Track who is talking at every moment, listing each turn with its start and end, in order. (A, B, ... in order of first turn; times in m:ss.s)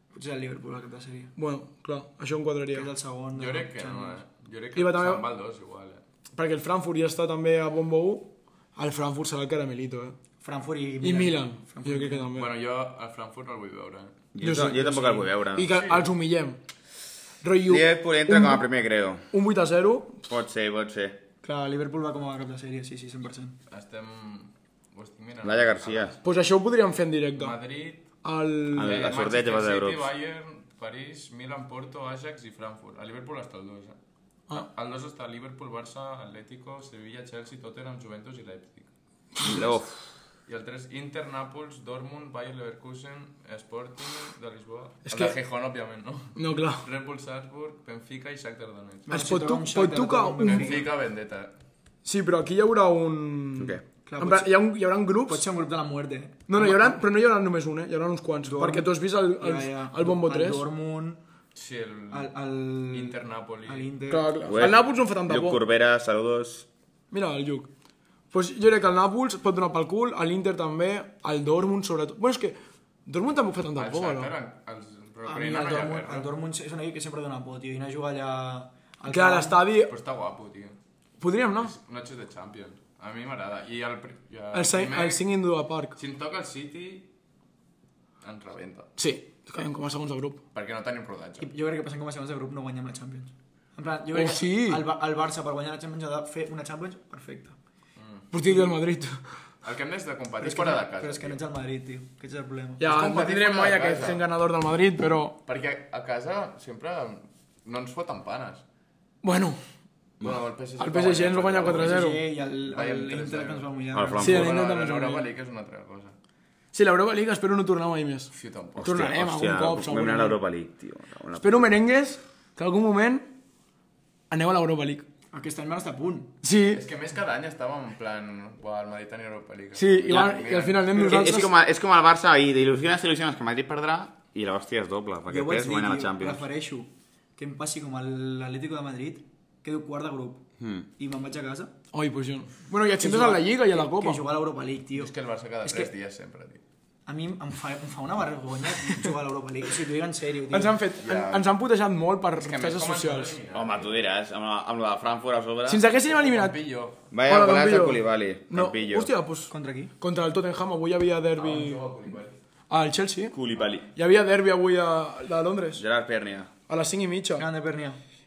0:00.1-0:01.3 A
0:01.4-0:02.9 B
0:02.7-0:04.2 A
0:03.3-0:06.0 C
0:04.8-0:05.2 B
0:06.3-0:10.2 B
0:10.4-0:12.3 A
0:11.0-0:12.5 B
0:12.3-0:14.2 C
0:14.3-0:15.8 D
0:14.4-0:16.6 B
0:15.7-0:16.1 C
0:17.4-0:18.6 B
0:17.7-0:19.2 D
0:19.3-0:20.2 B
0:20.2-0:21.2 D
0:21.4-0:23.6 A
0:23.7-0:26.2 C
0:25.4-0:26.2 D
0:26.2-0:27.6 B
0:27.4-0:28.1 C
0:28.2-0:29.0 B
0:28.7-0:30.1 D
0:28.8-0:34.0 C
0:34.5-0:38.9 C
0:39.4-0:39.6 B
0:39.4-0:39.9 D
0:40.4-0:49.1 C
0:45.0-0:45.3 B
0:46.4-0:46.8 B
0:49.1-0:50.9 A
0:49.1-0:50.8 B
0:50.4-0:51.5 C
0:52.0-0:55.4 B
0:53.6-0:53.8 D
0:54.0-0:54.6 A
0:55.2-0:57.0 A
0:56.5-1:00.6 B
0:58.5-1:01.2 A
1:01.5-1:03.9 C
1:02.1-1:04.5 A
1:04.1-1:05.6 B
1:04.5-1:06.6 D
1:07.1-1:07.7 B
1:08.3-1:14.3 B
1:13.8-1:16.3 C
1:15.2-1:19.6 A
1:19.1-1:19.9 B
1:19.8-1:20.8 C
1:21.2-1:21.8 B
1:21.6-1:25.2 C
1:24.5-1:26.0 B
1:26.0-1:27.1 C
1:28.2-1:28.9 C
1:29.0-1:30.4 B
1:30.5-1:31.5 C
1:31.4-1:37.6 A
1:34.1-1:34.8 B
1:38.0-1:38.3 C
1:38.3-1:39.2 B
1:39.6-1:41.4 C
1:40.4-1:42.8 A
1:42.8-1:45.4 B
1:42.8-1:44.2 C
1:45.4-1:48.6 C
1:49.2-1:49.6 B
1:50.2-1:56.1 C
1:50.8-1:52.2 B
1:51.6-1:54.2 A
1:53.9-1:54.5 D
1:54.2-1:55.3 B
1:56.7-2:00.4 B
1:58.3-1:59.1 C
1:58.8-2:01.7 D
2:01.4-2:03.3 B
2:04.3-2:05.0 B
2:05.3-2:06.3 A
2:06.4-2:06.8 B
2:06.7-2:11.0 C
2:09.8-2:11.5 B
2:11.0-2:11.3 A
2:11.0-2:16.4 D
2:15.3-2:20.4 A
2:20.6-2:20.9 D
2:21.0-2:21.7 A
2:21.9-2:24.2 B
2:23.0-2:25.1 A
2:24.9-2:26.6 C
2:25.6-2:25.9 A
2:27.0-2:30.8 A
2:30.5-2:33.4 B
2:31.0-2:31.5 C
2:32.4-2:34.0 C
2:33.5-2:35.8 D
2:35.6-2:36.6 B
2:36.1-2:37.0 C
2:37.1-2:39.1 D
2:37.3-2:41.8 B
2:39.5-2:39.9 A
2:41.4-2:42.4 C
2:42.7-2:43.3 B
2:43.3-2:43.9 D
2:43.9-2:45.8 B
2:45.8-2:46.5 D
2:46.7-2:47.4 B
2:47.4-2:48.0 A